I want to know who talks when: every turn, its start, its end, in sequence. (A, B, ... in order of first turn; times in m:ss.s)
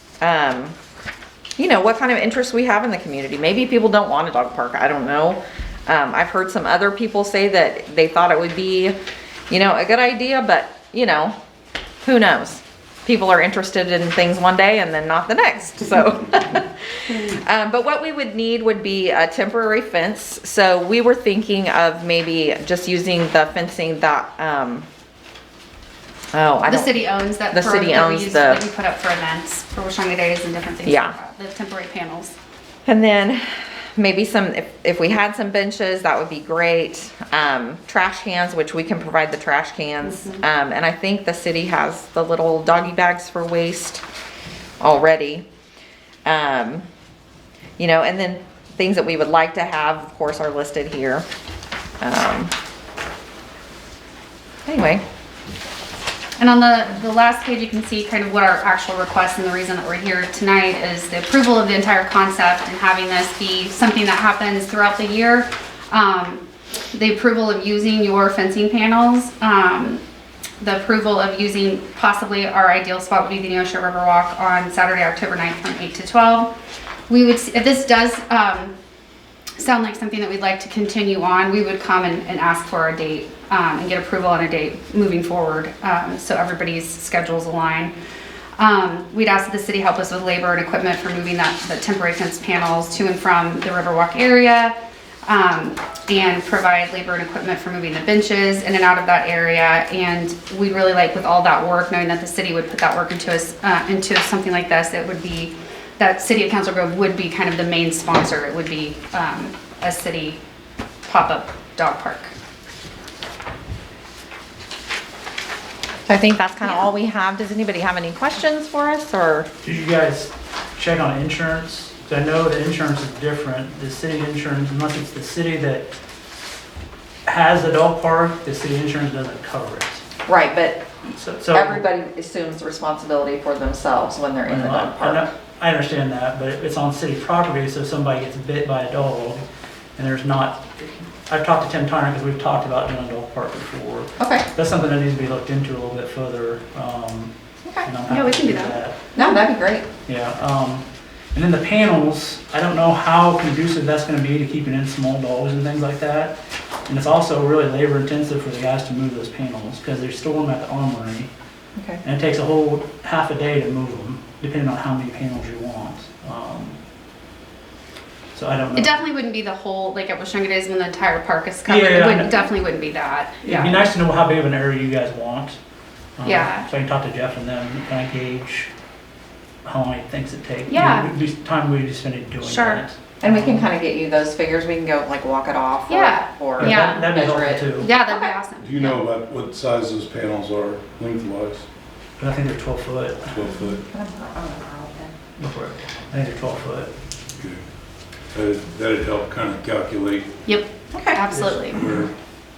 0:00.2-0:00.8 A
0:01.6-0:09.0 A
0:09.5-0:11.4 A
0:12.0-0:24.9 A
0:17.1-0:17.4 B
0:26.3-0:28.6 A
0:26.7-0:32.4 B
0:30.8-0:31.2 A
0:32.9-0:44.0 A
0:40.0-0:40.4 B
0:44.8-0:45.4 A
0:46.3-0:46.9 A
0:47.8-0:51.2 A
0:52.0-0:52.5 A
0:54.7-0:55.0 A
0:56.4-1:10.0 B
1:10.6-1:16.5 B
1:17.1-1:18.7 B
1:19.6-1:27.9 B
1:28.6-1:34.7 B
1:35.2-1:50.4 B
1:51.1-1:52.3 B
1:56.1-1:59.5 A
1:56.6-1:56.9 B
1:59.6-2:05.9 C
2:07.3-2:10.0 C
2:10.3-2:10.9 A
2:11.1-2:11.8 C
2:11.5-2:15.3 A
2:14.5-2:19.4 C
2:20.0-2:27.3 C
2:24.2-2:24.5 A
2:27.6-2:27.9 A
2:27.8-2:29.0 C
2:28.1-2:29.4 B
2:29.2-2:29.9 A
2:30.1-2:36.4 C
2:36.9-2:41.3 C
2:41.8-2:42.0 A
2:42.0-2:46.8 C
2:48.3-2:49.0 C
2:48.8-2:53.8 B
2:51.7-2:52.5 C
2:53.4-2:55.6 C
2:56.2-2:58.7 C
2:56.2-2:56.7 B
2:59.6-3:03.7 C
3:00.7-3:01.1 B
3:02.4-3:02.8 B
3:03.2-3:08.3 A
3:05.9-3:07.1 B
3:06.6-3:07.9 C
3:07.8-3:09.0 B
3:08.6-3:11.7 D
3:12.2-3:13.5 C
3:13.2-3:13.8 D
3:13.9-3:15.1 A
3:15.4-3:16.9 C
3:17.4-3:17.6 D
3:18.3-3:20.5 D
3:20.5-3:21.9 B
3:20.9-3:21.2 A
3:21.3-3:21.6 C
3:21.7-3:22.1 D